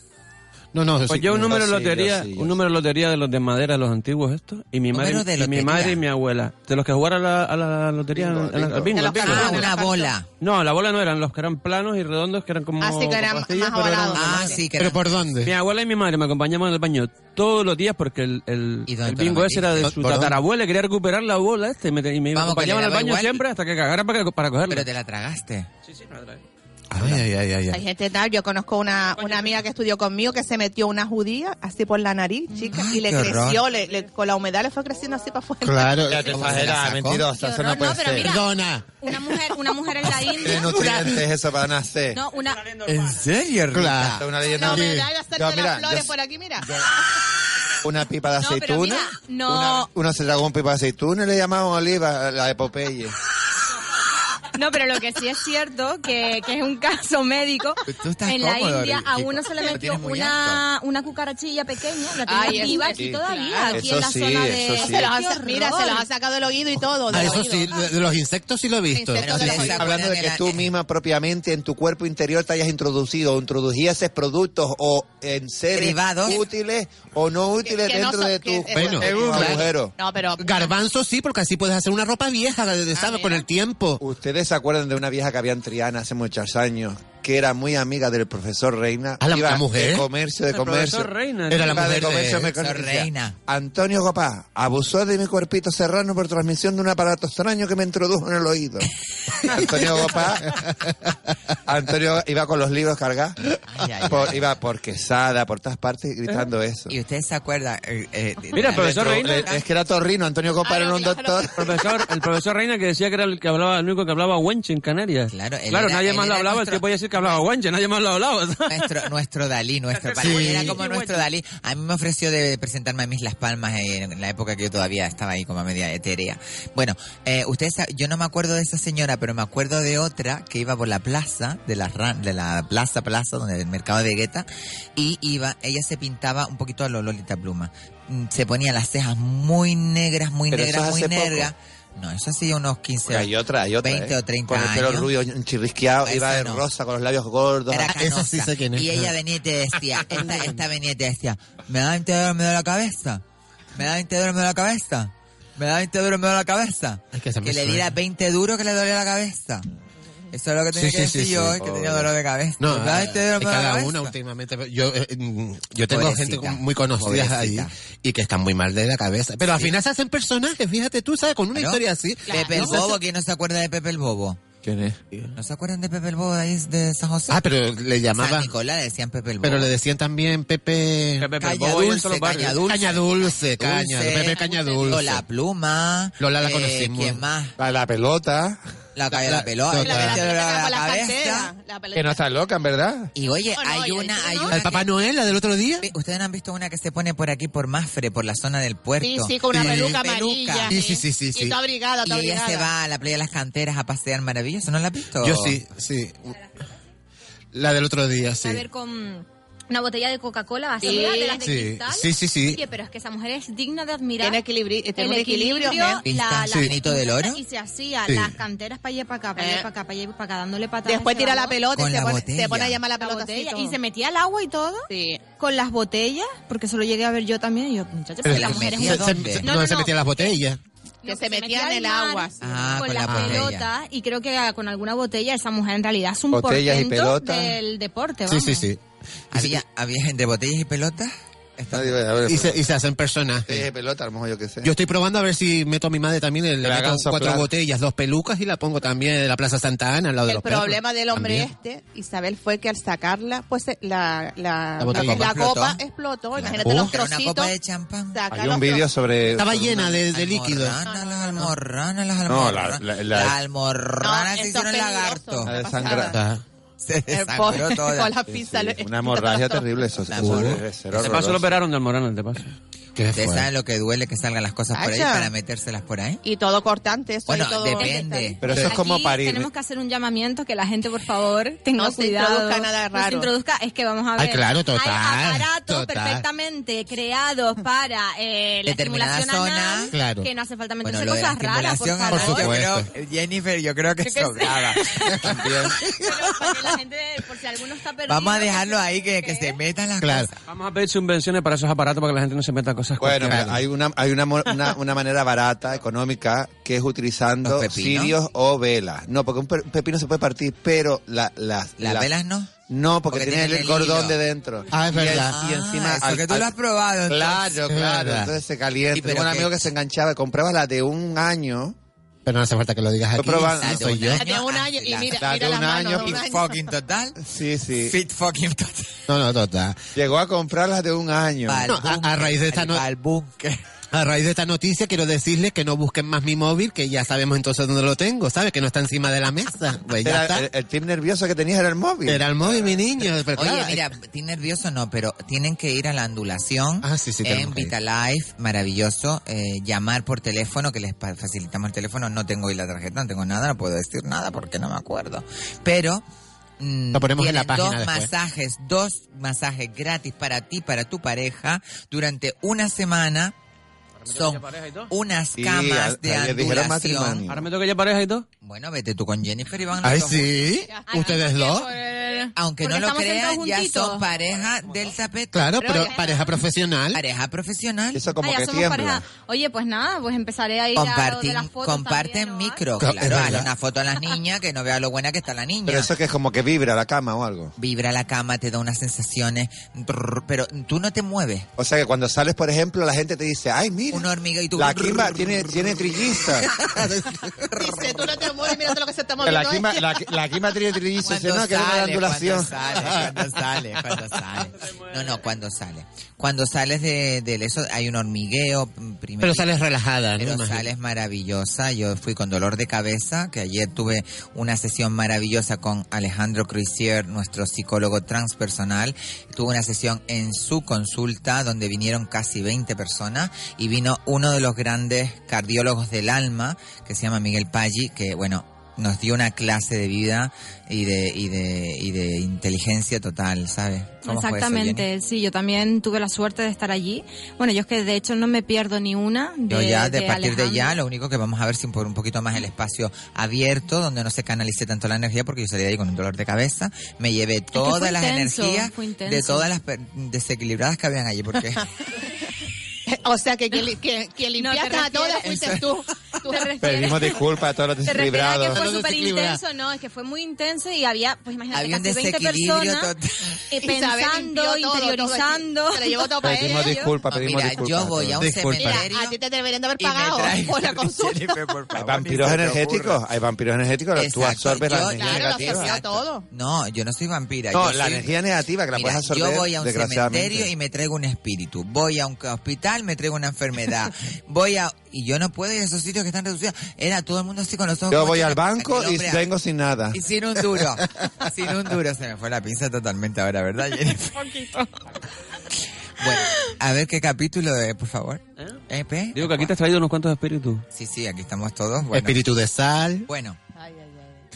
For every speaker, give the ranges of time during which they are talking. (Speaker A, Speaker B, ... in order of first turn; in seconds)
Speaker A: 0.7-1.6, 14.8-15.5, 19.8-20.4, 26.9-27.8, 35.6-36.5, 38.2-38.9, 40.5-41.2, 43.7-45.1, 67.1-69.8, 78.7-79.7, 80.4-84.0, 89.2-90.1, 91.5-92.5, 120.2-120.8, 147.9-149.1, 157.1-157.9, 160.7-161.6, 162.6-172.9, 177.3-178.5, 179.4-181.3, 182.6-185.2, 186.2-187.2, 189.1-190.2, 194.5-195.9, 199.5-200.0, 200.7-201.6, 205.2-206.4, 207.5-208.6, 211.4-212.6, 216.5-216.7, 218.1-218.4, 228.2-230.6, 233.1-233.5, 238.3-238.8, 239.3-239.6, 242.3-243.7, 244.6-251.5, 254.8-255.3, 256.6-256.9, 259.4-260.8, 266.1-266.4, 270.1-270.6, 273.0-273.5, 284.2-286.2, 289.9-290.3, 292.1-292.9, 300.0-300.3, 303.2-303.6, 314.7-315.4, 317.7-318.4, 322.2-324.2, 329.1-329.8, 331.7-332.9, 333.9-340.5, 342.1-343.8, 346.8-347.7, 356.9-358.1, 369.8-371.7, 375.3-377.0, 382.8-383.5, 396.5-397.9, 402.8-403.2, 409.2-410.7, 458.5-459.4, 468.2-468.9, 501.9-503.1
Speaker B: 1.1-9.7, 10.4-14.6, 15.4-24.9, 25.9-26.4, 29.2-29.6, 90.5-92.0, 108.5-109.5, 111.6-119.1, 119.9-121.3, 181.2-182.7, 270.9-272.5, 300.5-303.5, 364.1-364.9, 367.3-368.3, 499.1-500.6
Speaker C: 1.4-2.6, 8.1-9.2, 36.1-38.3, 40.3-42.2, 44.2-46.1, 47.8-53.1, 59.7-60.6, 62.9-65.1, 69.5-80.0, 84.0-100.7, 101.7-106.9, 108.6-111.8, 140.5-141.5, 143.1-148.0, 161.5-162.1, 174.6-175.0, 187.6-188.6, 191.9-193.1, 236.3-237.6, 241.7-242.6, 243.5-244.7, 246.6-247.5, 258.3-260.0, 262.3-263.4, 265.4-266.2, 268.3-271.6, 278.4-279.5, 295.2-295.8, 303.0-312.1, 312.7-316.5, 317.1-321.8, 323.2-324.0, 325.2-326.2, 327.2-328.0, 330.0-331.7, 340.0-343.1, 365.4-367.5, 377.9-379.0, 385.7-387.6, 391.6-396.6, 399.2-402.6, 456.6-458.6, 466.2-468.3, 471.7-475.8, 477.5-480.5, 487.9-490.0
Speaker D: 4.9-6.0, 9.2-10.3, 14.1-15.1, 18.9-19.9, 22.3-23.4, 24.7-25.7, 32.7-33.6, 36.3-37.3, 42.9-44.3, 57.9-60.4, 69.2-70.7, 75.7-76.4, 92.6-93.4, 103.7-104.4, 106.9-109.6, 115.3-117.4, 118.7-145.1, 146.0-146.7, 147.7-153.2, 153.8-159.7, 160.3-164.1, 165.9-167.7, 171.5-174.4, 175.3-177.4, 178.1-179.7, 181.4-187.6, 188.9-191.5, 193.2-194.9, 195.8-200.7, 202.0-205.6, 216.1-217.4, 221.7-222.8, 228.3-229.5, 232.4-233.7, 239.3-242.0, 254.9-255.8, 256.4-258.2, 259.8-265.5, 266.8-268.1, 270.1-270.6, 273.1-276.2, 277.3-278.4, 288.7-289.9, 290.8-295.4, 298.1-300.4, 307.4-308.2, 311.8-312.5, 313.1-314.2, 315.3-317.6, 318.9-319.7, 323.6-325.2, 326.0-327.2, 327.8-329.0, 331.5-333.6, 343.3-356.0, 356.6-363.4, 364.1-367.2, 368.4-370.4, 372.4-375.9, 376.9-378.0, 380.8-385.9, 387.6-391.5, 393.9-395.6, 401.0-409.5, 410.2-434.9, 439.5-451.7, 455.2-455.6, 461.5-463.4, 467.1-469.2, 469.8-473.0, 473.9-478.1, 478.7-489.3, 489.9-494.3, 496.0-499.5, 500.7-502.2, 503.1-503.4
Speaker E: 8.9-10.1, 12.8-14.6, 27.7-36.1, 44.5-46.7, 62.3-63.9, 64.8-67.8, 68.9-69.9, 77.7-80.7, 83.0-83.4, 110.6-111.5, 172.3-172.9, 184.4-184.9, 189.8-192.2, 193.6-194.6, 199.0-202.7, 210.8-211.4, 214.2-216.0, 219.4-219.7, 220.8-223.8, 224.9-225.2, 231.1-232.8, 250.3-257.5, 258.1-258.9, 260.8-261.5, 264.0-266.2, 267.1-269.7, 274.7-275.3, 276.2-278.4, 281.8-283.3, 324.1-326.6, 370.7-371.6, 375.6-376.3, 397.5-399.8, 452.9-456.6, 463.6-466.7, 468.6-471.3, 474.9-476.2, 503.6-504.1
Speaker F: 37.4-40.8, 42.1-42.8, 48.4-49.9, 54.5-66.1, 208.4-214.4, 215.0-221.6, 223.0-230.3, 231.0-238.7, 277.8-292.6, 294.0-295.2, 296.0-299.6, 370.9-374.0, 378.2-382.6, 434.1-440.8, 447.6-449.5, 454.4-455.5, 456.3-457.3, 457.8-462.9, 463.5-466.9, 494.2-494.7